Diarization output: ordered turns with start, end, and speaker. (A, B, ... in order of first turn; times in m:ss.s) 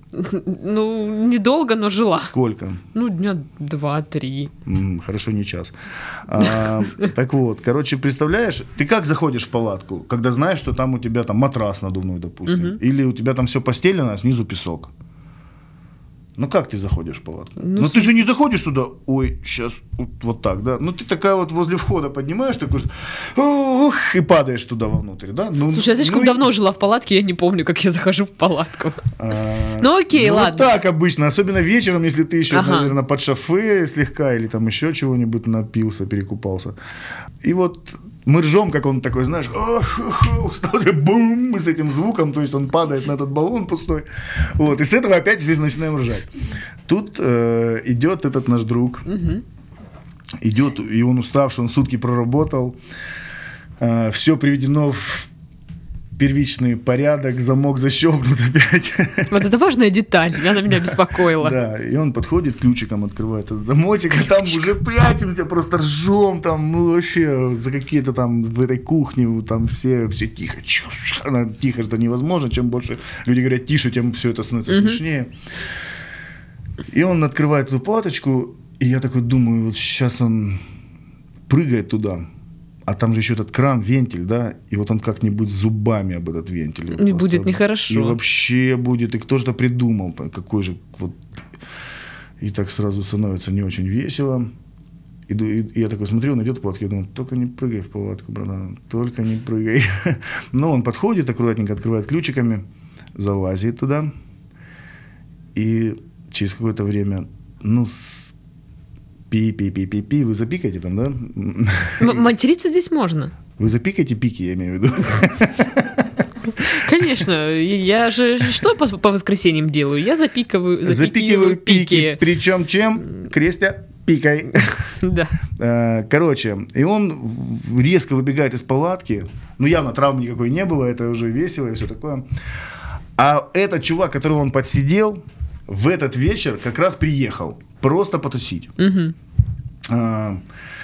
0:00.2-0:02.3 A
0:02.2-0:02.8 B
0:03.0-0:04.5 A
0:04.6-0:05.7 B
0:06.3-0:14.9 B
0:06.4-0:07.0 A
0:12.5-0:12.8 A
0:16.4-0:26.5 B
0:17.6-0:18.2 A
0:25.7-0:29.0 A
0:29.2-0:36.8 B
0:29.8-0:30.7 A
0:32.5-0:32.9 A
0:37.4-0:46.3 B
0:46.9-0:49.1 B
0:49.1-0:49.4 A
0:50.4-0:52.8 B
0:53.8-0:55.3 B
0:56.2-0:59.4 B
0:59.3-1:01.6 A
1:00.7-1:15.3 B
1:14.7-1:15.0 A
1:16.9-1:20.6 B
1:21.5-1:22.2 B
1:22.9-1:31.2 B
1:26.9-1:28.2 A
1:32.4-1:34.5 B
1:35.3-1:42.6 B
1:43.2-1:44.1 B
1:45.6-1:48.3 B
1:49.3-1:52.2 B
1:52.0-1:53.3 A
1:53.6-1:56.8 B
1:56.6-2:02.2 A
2:00.8-2:04.9 B
2:05.0-2:05.4 A
2:05.6-2:12.2 B
2:13.2-2:18.7 B
2:18.8-2:19.2 A
2:19.9-2:20.4 B